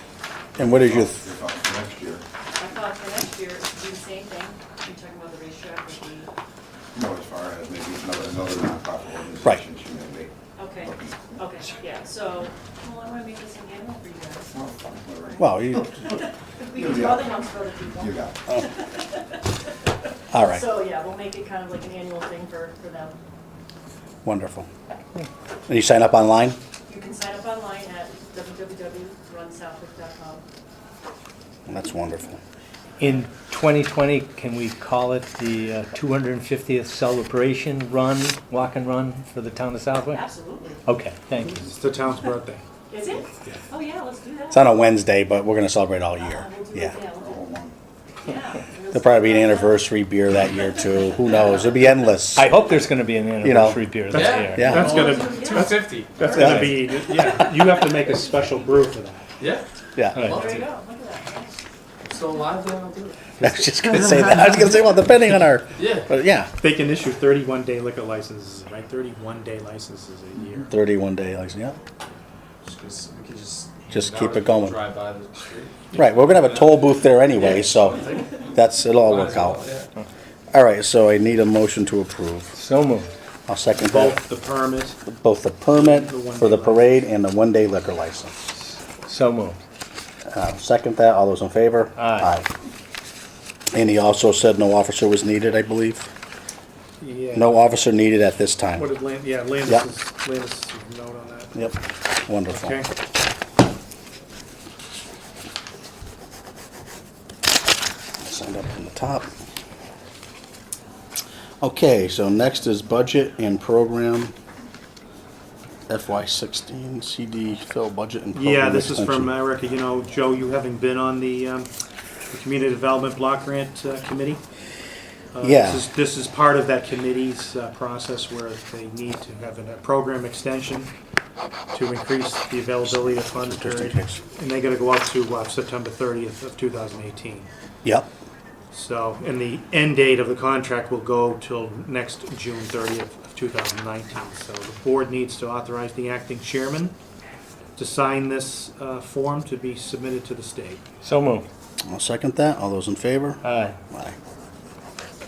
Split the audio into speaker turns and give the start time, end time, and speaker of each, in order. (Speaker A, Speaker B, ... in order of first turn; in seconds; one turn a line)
Speaker A: 0.6-1.2
Speaker B: 0.6-2.2
Speaker C: 2.5-6.3
Speaker B: 6.9-10.3
Speaker C: 10.6-14.6
Speaker B: 14.5-16.0
Speaker C: 15.2-19.5
Speaker A: 15.4-15.9
Speaker B: 16.7-17.3
Speaker B: 18.0-18.3
Speaker A: 20.3-20.6
Speaker C: 20.3-23.2
Speaker A: 24.2-24.7
Speaker A: 25.7-26.6
Speaker C: 26.9-30.4
Speaker A: 31.6-32.4
Speaker D: 33.0-40.2
Speaker C: 40.0-40.8
Speaker D: 40.8-41.6
Speaker E: 41.5-42.6
Speaker C: 42.9-44.8
Speaker A: 44.5-47.0
Speaker C: 46.2-47.5
Speaker B: 47.2-47.7
Speaker C: 48.2-49.9
Speaker A: 48.9-52.5
Speaker C: 51.3-51.6
Speaker D: 52.4-55.2
Speaker A: 53.4-53.8
Speaker E: 54.1-59.3
Speaker F: 54.1-56.8
Speaker A: 54.5-55.0
Speaker C: 55.0-56.3
Speaker A: 56.3-56.8
Speaker F: 59.4-59.6
Speaker A: 60.0-60.6
Speaker F: 60.1-60.6
Speaker C: 60.2-61.6
Speaker F: 62.1-63.4
Speaker A: 63.4-66.5
Speaker F: 65.8-66.0
Speaker E: 66.6-70.7
Speaker A: 70.7-71.8
Speaker F: 72.6-75.8
Speaker A: 73.9-74.8
Speaker A: 75.9-79.7
Speaker F: 77.4-78.2
Speaker F: 79.0-79.8
Speaker A: 80.5-82.5
Speaker D: 82.5-83.1
Speaker A: 83.5-84.2
Speaker E: 83.8-85.0
Speaker A: 85.0-88.3
Speaker E: 85.7-86.9
Speaker D: 89.0-89.6
Speaker A: 90.3-92.5
Speaker D: 92.0-92.3
Speaker A: 93.7-96.1
Speaker E: 97.0-97.5
Speaker A: 97.3-98.9
Speaker E: 98.8-101.5
Speaker A: 101.5-102.8
Speaker E: 102.5-102.9
Speaker A: 108.2-109.3
Speaker A: 111.6-114.3
Speaker A: 115.9-119.3
Speaker E: 118.3-121.7
Speaker E: 122.3-124.4
Speaker E: 125.3-130.9
Speaker A: 125.4-125.8
Speaker E: 131.7-137.5
Speaker A: 132.9-134.2
Speaker A: 137.8-138.1
Speaker E: 138.7-146.9
Speaker E: 147.8-150.8
Speaker D: 151.0-151.5
Speaker A: 151.8-154.2
Speaker D: 153.4-153.8